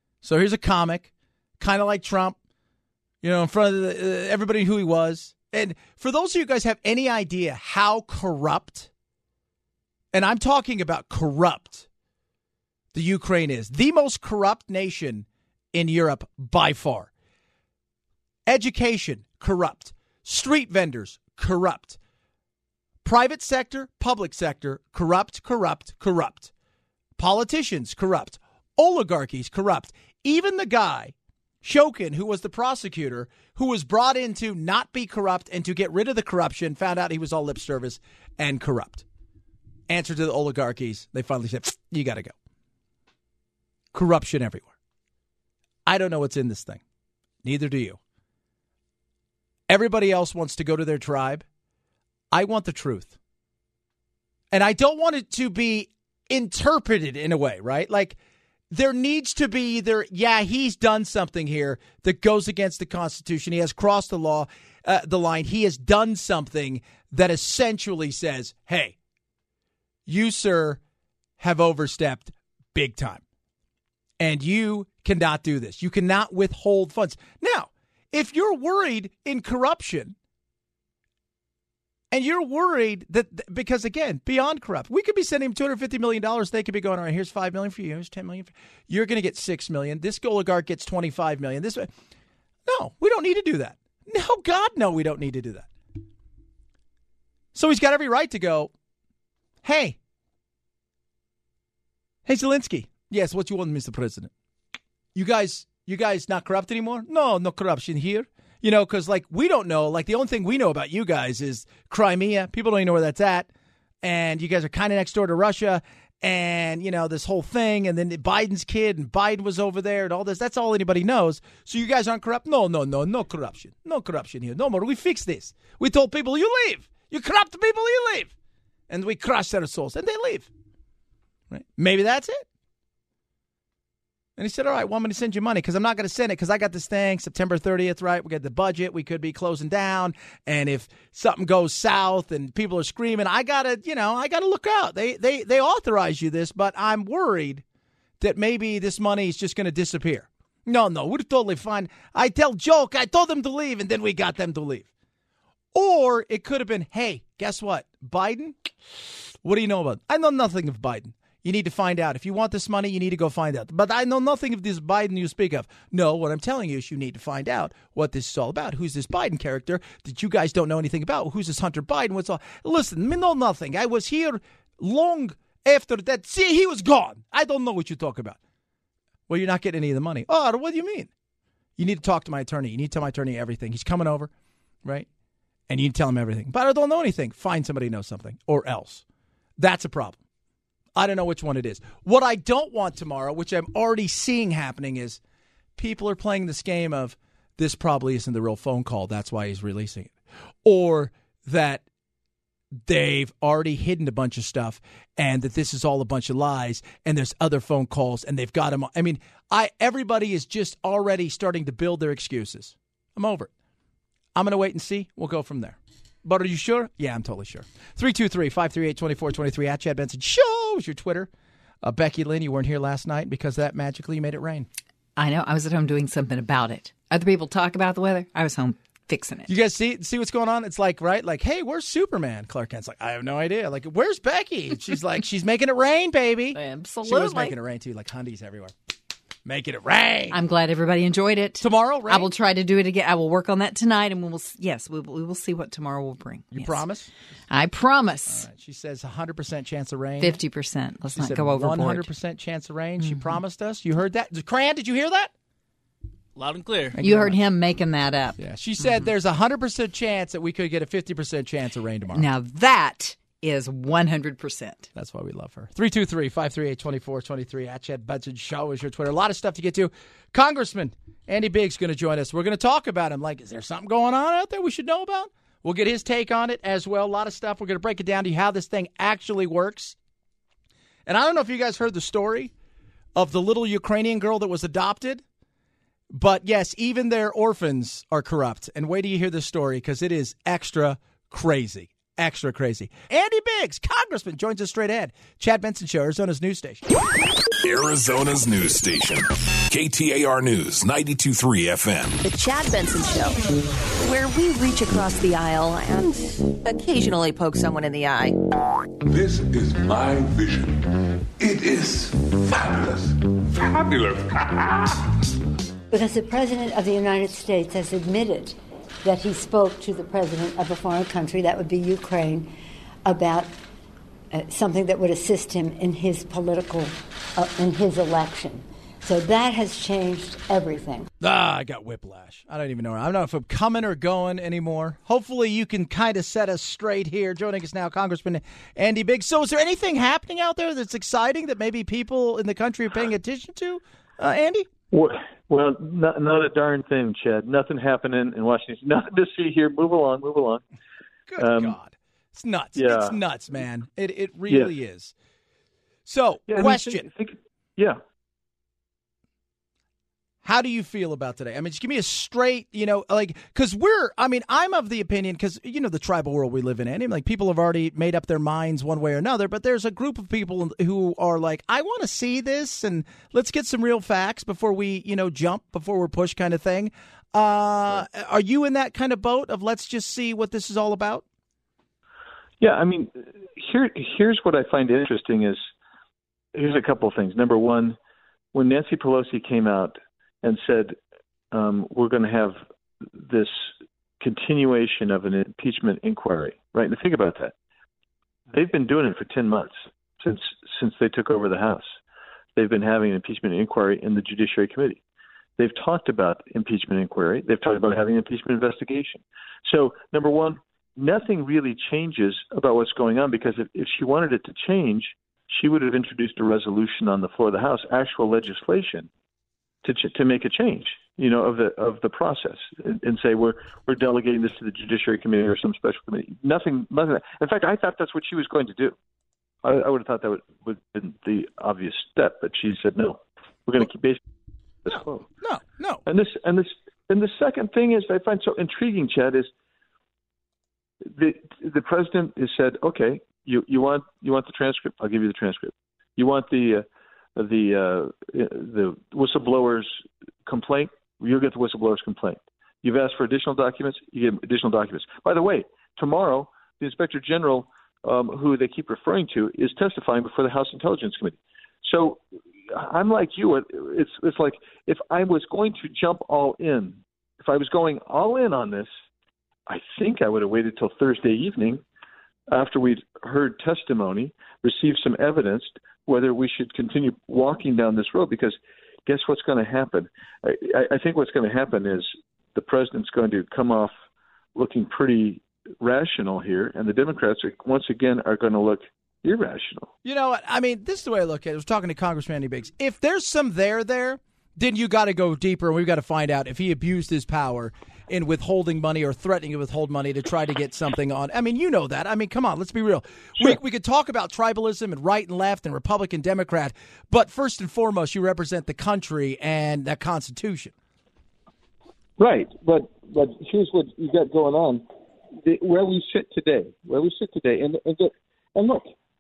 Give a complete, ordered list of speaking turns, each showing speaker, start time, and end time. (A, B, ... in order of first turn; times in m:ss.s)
0:00.2-0:02.4 A
0:03.2-0:08.9 A
0:10.1-0:11.9 A
0:12.9-0:17.1 A
0:18.4-0:22.0 A
0:23.0-0:26.5 A
0:27.2-0:39.0 A
0:39.9-0:42.3 A
0:43.9-0:44.7 A
0:45.9-0:46.8 A
0:47.4-0:48.0 A
0:49.7-0:51.4 A
0:52.3-0:53.1 A
0:54.5-0:58.2 A
0:58.7-1:09.0 A
1:10.1-1:10.8 A
1:11.4-1:13.2 A
1:14.2-1:20.1 A
1:22.1-1:31.9 A
1:32.6-1:35.7 A
1:37.5-1:38.7 A
1:39.6-1:40.0 A
1:42.2-1:44.3 A
1:45.1-1:53.5 A
1:54.0-2:08.3 A
2:08.9-2:10.5 A
2:11.5-2:12.4 A
2:14.4-2:27.6 A
2:28.2-2:34.9 A
2:35.7-2:38.6 A
2:39.4-2:58.4 A
2:59.3-3:01.1 A
3:01.8-3:04.3 A
3:05.7-3:09.0 A
3:09.6-3:10.2 A
3:10.9-3:15.2 A
3:15.8-3:20.1 A
3:20.6-3:21.8 A
3:22.8-3:33.5 A
3:34.4-3:41.3 A
3:41.8-3:44.7 A
3:45.2-3:49.5 B
3:49.5-3:58.7 A
3:56.5-3:57.5 B
3:59.4-4:00.4 A
4:00.3-4:06.8 B
4:01.6-4:02.3 A
4:06.5-4:07.1 A
4:07.5-4:08.4 B
4:08.3-4:10.4 A
4:10.2-4:12.1 B
4:11.2-4:15.3 A
4:13.0-4:13.4 B
4:16.8-4:17.4 A
4:16.9-4:18.4 B
4:18.4-4:22.2 A
4:22.1-4:24.9 B
4:24.9-4:40.0 A
4:41.0-4:42.5 A
4:43.2-4:45.2 A
4:46.1-4:56.8 A
4:57.6-5:02.2 C
5:02.2-5:03.4 D
5:04.0-5:08.4 D
5:09.0-5:10.8 E
5:11.4-5:15.0 E
5:15.9-5:22.5 F
5:23.0-5:23.5 F
5:24.3-5:31.1 F
5:31.2-5:44.7 A
5:44.9-5:50.6 G
5:51.3-5:55.1 A
5:51.4-5:51.7 G
5:52.8-5:53.1 G
5:56.0-5:57.0 A
5:56.5-5:58.0 G
6:00.4-6:21.2 A
6:22.6-6:25.6 G
6:26.5-6:28.0 G
6:28.5-6:31.0 G
6:31.5-6:32.6 G
6:33.2-6:33.7 G
6:34.2-6:37.5 G
6:38.5-6:41.9 G
6:42.6-6:45.0 G
6:45.6-6:59.1 G
6:59.8-7:09.0 G
7:09.6-7:14.2 G
7:14.8-7:15.2 G
7:14.9-7:16.0 A
7:16.1-7:19.5 G
7:21.0-7:26.8 G
7:27.4-7:29.9 G
7:30.4-7:42.2 G
7:42.7-7:48.9 G
7:49.7-7:51.8 G
7:52.5-7:58.5 G
7:59.0-8:03.9 G
8:04.5-8:09.9 G
8:10.0-8:30.7 A
8:32.2-8:34.8 G
8:35.4-8:38.8 G